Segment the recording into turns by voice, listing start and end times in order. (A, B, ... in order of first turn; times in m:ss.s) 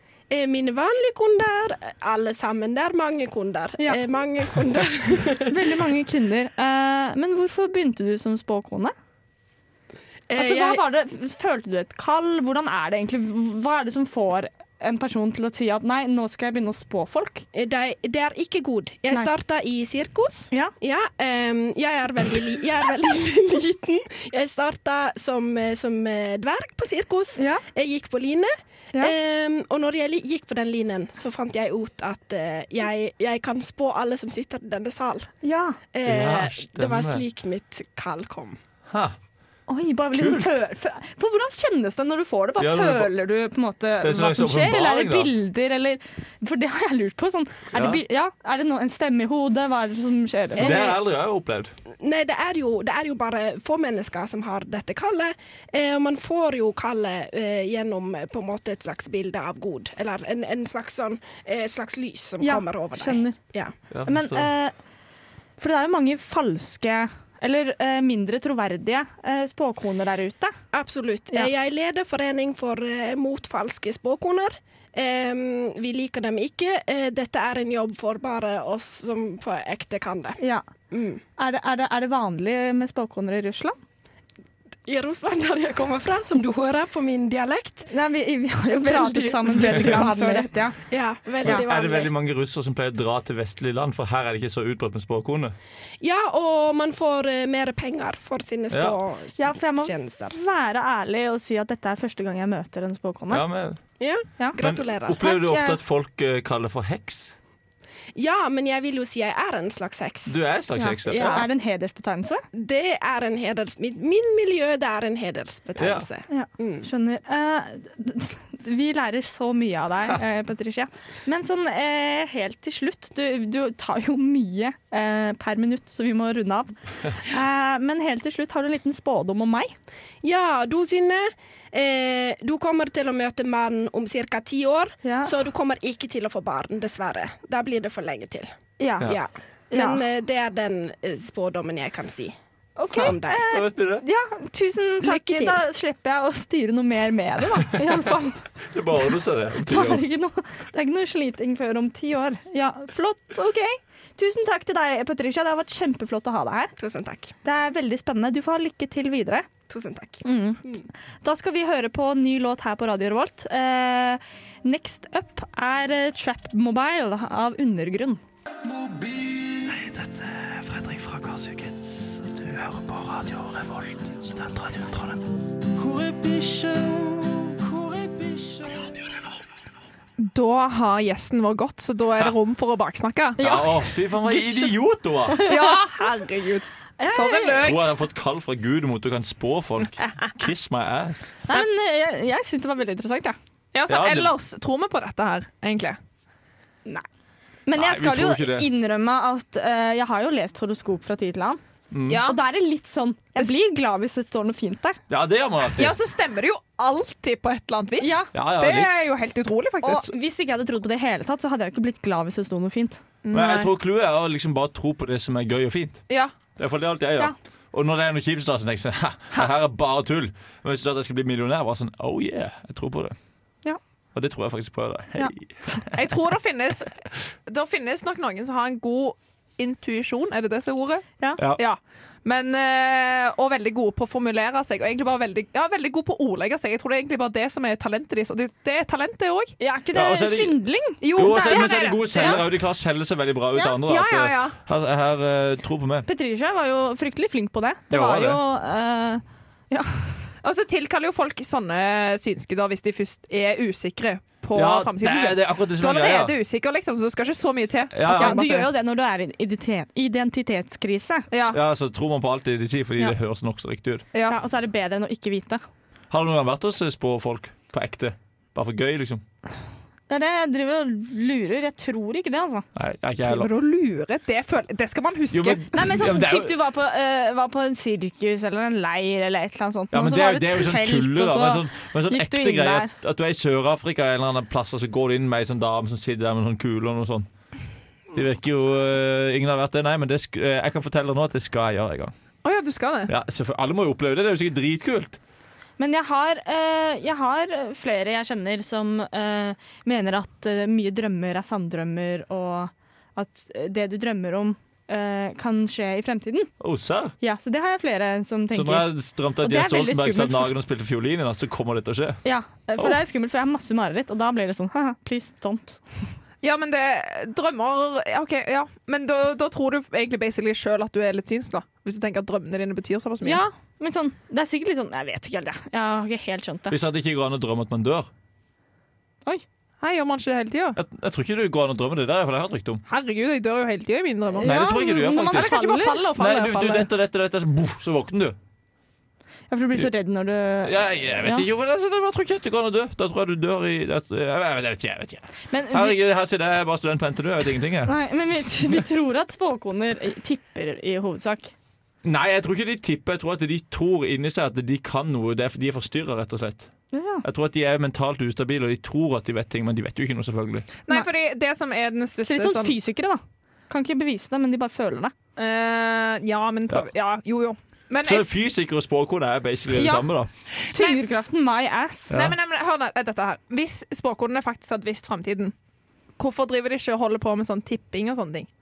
0:00.3-0:05.8 A
0:05.5-0:09.0 B
0:10.3-0:10.8 A
0:10.4-0:17.5 B
0:17.5-0:35.3 A
0:27.4-0:27.6 B
0:35.4-0:35.8 B
0:35.9-0:38.6 A
0:36.0-0:37.2 C
0:38.9-0:39.2 C
0:39.7-0:50.8 B
0:40.1-0:40.6 C
0:42.6-0:43.1 C
0:44.0-0:45.3 C
0:47.7-0:48.0 C
0:50.6-0:51.0 A
0:50.6-0:51.7 C
0:52.0-1:03.7 A
1:02.4-1:03.4 B
1:03.9-1:04.5 C
1:04.1-1:04.8 B
1:05.6-1:10.5 B
1:10.7-1:20.4 A
1:20.4-1:20.6 B
1:20.9-1:21.2 A
1:21.4-1:23.8 B
1:24.9-1:27.9 A
1:27.9-1:30.8 B
1:28.9-1:32.1 A
1:31.4-1:31.7 B
1:31.4-1:35.6 C
1:36.0-1:40.4 A
1:38.7-1:39.0 C
1:39.4-1:43.4 B
1:43.3-1:43.8 C
1:44.0-1:45.2 A
1:44.6-1:47.4 C
1:45.2-1:45.8 B
1:48.2-1:50.4 A
1:50.3-1:51.5 C
1:50.8-1:52.4 B
1:51.1-1:51.5 A
1:52.5-1:56.9 A
1:55.8-1:56.1 C
1:56.3-2:09.7 B
2:10.2-2:22.4 A
2:15.0-2:15.3 B
2:18.8-2:19.2 B
2:19.7-2:20.0 B
2:22.8-2:28.4 B
2:22.9-2:23.4 A
2:23.5-2:24.0 C
2:25.0-2:25.6 A
2:28.7-2:30.0 C
2:29.6-2:36.7 B
2:36.8-2:37.3 A
2:37.4-2:39.5 B
2:39.7-2:40.9 A
2:40.2-2:40.7 B
2:41.2-2:48.2 B
2:49.0-2:59.0 C
3:00.2-3:03.5 D
3:03.4-3:04.7 B
3:03.4-3:05.4 C
3:05.3-3:05.8 B
3:05.4-3:07.8 D
3:07.0-3:07.7 B
3:07.6-3:11.4 C
3:11.5-3:13.4 B
3:13.7-3:16.0 D
3:13.9-3:14.3 C
3:17.7-3:21.6 B
3:17.7-3:18.7 C
3:21.9-3:22.2 C
3:22.1-3:22.4 D
3:22.2-3:25.0 B
3:25.1-3:26.0 C
3:25.7-3:30.1 D
3:28.0-3:28.3 B
3:28.3-3:28.9 C
3:29.8-3:33.0 B
3:33.2-3:33.7 D
3:33.3-3:36.0 C
3:36.1-3:36.4 D
3:36.6-3:43.2 C
3:44.2-3:46.1 C
3:45.9-3:47.0 D
3:47.5-3:59.6 D
3:59.6-4:02.4 B
3:59.9-4:00.6 C
4:01.0-4:02.5 D
4:01.2-4:06.1 C
4:03.9-4:04.6 D
4:06.1-4:10.3 B
4:07.9-4:08.4 C
4:10.4-4:18.7 D
4:14.6-4:16.4 C
4:17.9-4:18.4 C
4:18.1-4:21.3 B
4:21.3-4:21.6 D
4:21.5-4:24.0 C
4:24.3-4:25.6 B
4:26.1-4:29.2 C
4:30.1-4:32.7 B
4:32.8-4:33.5 C
4:33.2-4:35.6 D
4:35.3-4:36.6 C
4:35.7-4:42.9 B
4:39.9-4:47.3 C
4:48.1-4:52.1 C
4:52.4-4:53.1 D
4:53.1-4:55.2 C
4:55.8-5:06.5 B
5:06.6-5:07.2 C
5:07.2-5:10.6 B
5:08.5-5:12.2 C
5:12.2-5:15.8 B
5:16.4-5:23.4 D
5:23.2-5:26.8 B
5:26.7-5:28.1 C
5:29.8-5:30.8 D
5:30.8-5:32.8 C
5:32.9-5:34.5 D
5:34.4-5:36.1 B
5:34.4-5:35.6 C
5:35.3-5:36.9 D
5:36.2-5:38.4 C
5:39.5-5:41.5 B
5:40.6-5:47.9 C
5:45.5-5:46.0 B
5:47.9-5:51.5 B
5:52.0-5:56.7 C
5:56.9-5:57.2 B
5:57.2-6:00.7 C
6:00.9-6:02.8 D
6:02.3-6:05.1 B
6:05.4-6:08.3 D
6:08.0-6:10.3 C
6:09.7-6:10.1 B
6:10.7-6:11.0 D
6:10.7-6:12.2 B
6:12.1-6:12.4 C
6:12.1-6:15.5 D
6:16.2-6:18.5 D